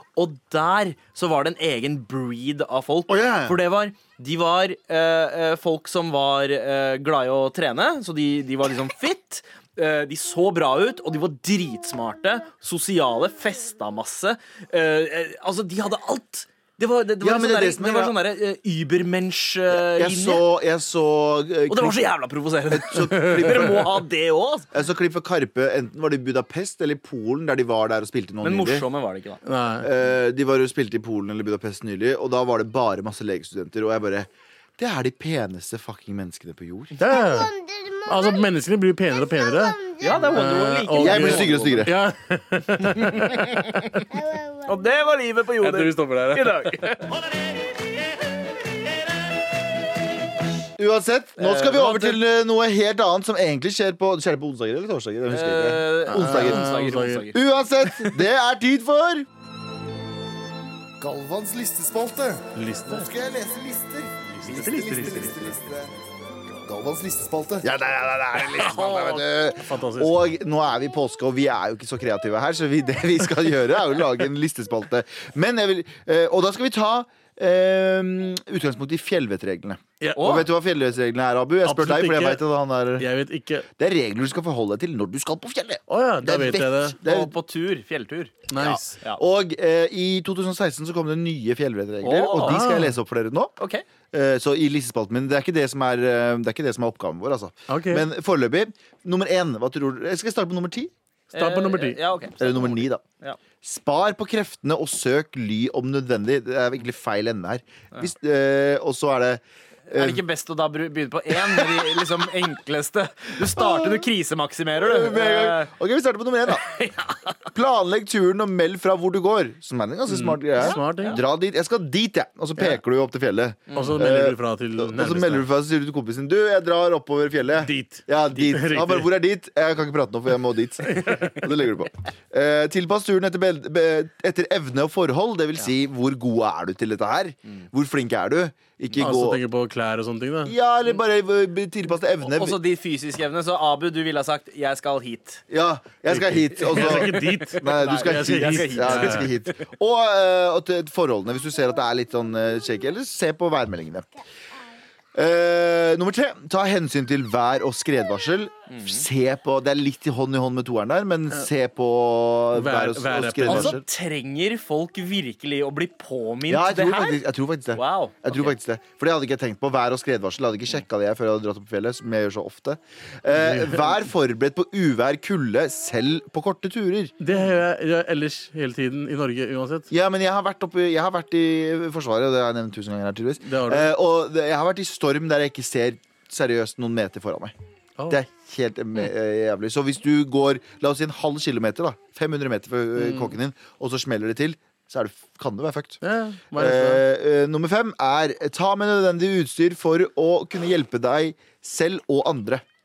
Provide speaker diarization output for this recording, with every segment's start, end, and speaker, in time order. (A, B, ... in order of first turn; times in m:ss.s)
0:00.2-0:20.4 A
0:03.1-0:03.6 B
0:17.2-0:18.2 B
0:19.7-0:22.1 B
0:21.7-0:24.7 A
0:22.7-0:23.9 B
0:24.7-0:28.8 B
0:28.4-0:29.4 A
0:29.4-0:29.9 C
0:29.8-0:37.0 B
0:37.0-0:37.5 C
0:37.0-0:38.5 D
0:38.1-0:43.6 C
0:39.1-0:40.6 D
0:40.0-0:41.9 A
0:41.0-0:41.9 B
0:42.8-0:44.1 A
0:44.1-0:44.9 D
0:44.7-0:47.2 A
0:45.6-0:46.8 C
0:50.8-0:56.7 B
0:51.4-0:52.2 A
0:55.3-0:58.2 A
0:56.1-0:57.3 C
0:57.3-0:59.3 B
1:01.0-1:05.9 E
1:02.6-1:03.1 C
1:04.3-1:05.6 C
1:04.4-1:05.6 B
1:06.6-1:07.7 E
1:07.6-1:23.1 B
1:08.4-1:10.2 C
1:20.0-1:20.4 C
1:20.2-1:20.5 A
1:21.6-1:22.4 C
1:23.0-1:23.7 C
1:23.8-1:27.3 B
1:25.9-1:27.0 C
1:27.0-1:28.4 A
1:28.5-1:29.0 C
1:28.6-1:33.5 B
1:32.0-1:32.6 A
1:32.4-1:33.0 C
1:33.6-1:33.8 A
1:34.1-1:40.9 B
1:37.7-1:38.1 C
1:41.3-1:43.4 A
1:41.3-1:42.0 C
1:42.4-1:43.0 B
1:43.6-1:50.2 B
1:49.9-1:55.7 A
1:54.8-1:56.7 B
1:56.5-1:57.4 A
1:57.5-2:19.4 B
2:00.1-2:01.2 C
2:00.6-2:01.2 A
2:03.7-2:04.0 A
2:03.7-2:05.5 C
2:07.6-2:09.1 C
2:10.9-2:11.4 C
2:19.0-2:20.5 C
2:20.4-2:22.6 B
2:22.2-2:25.4 A
2:25.5-2:34.1 B
2:26.1-2:29.3 C
2:26.7-2:29.6 A
2:35.2-2:43.8 B
2:38.7-2:39.1 A
2:42.5-2:43.7 C
2:43.5-2:47.2 A
2:46.5-2:57.1 B
2:47.7-2:48.6 A
2:53.3-2:54.0 C
2:57.2-2:59.9 C
2:59.9-3:07.5 B
3:03.4-3:03.9 C
3:08.1-3:16.0 B
3:13.0-3:13.3 C
3:16.0-3:17.0 C
3:16.6-3:22.6 B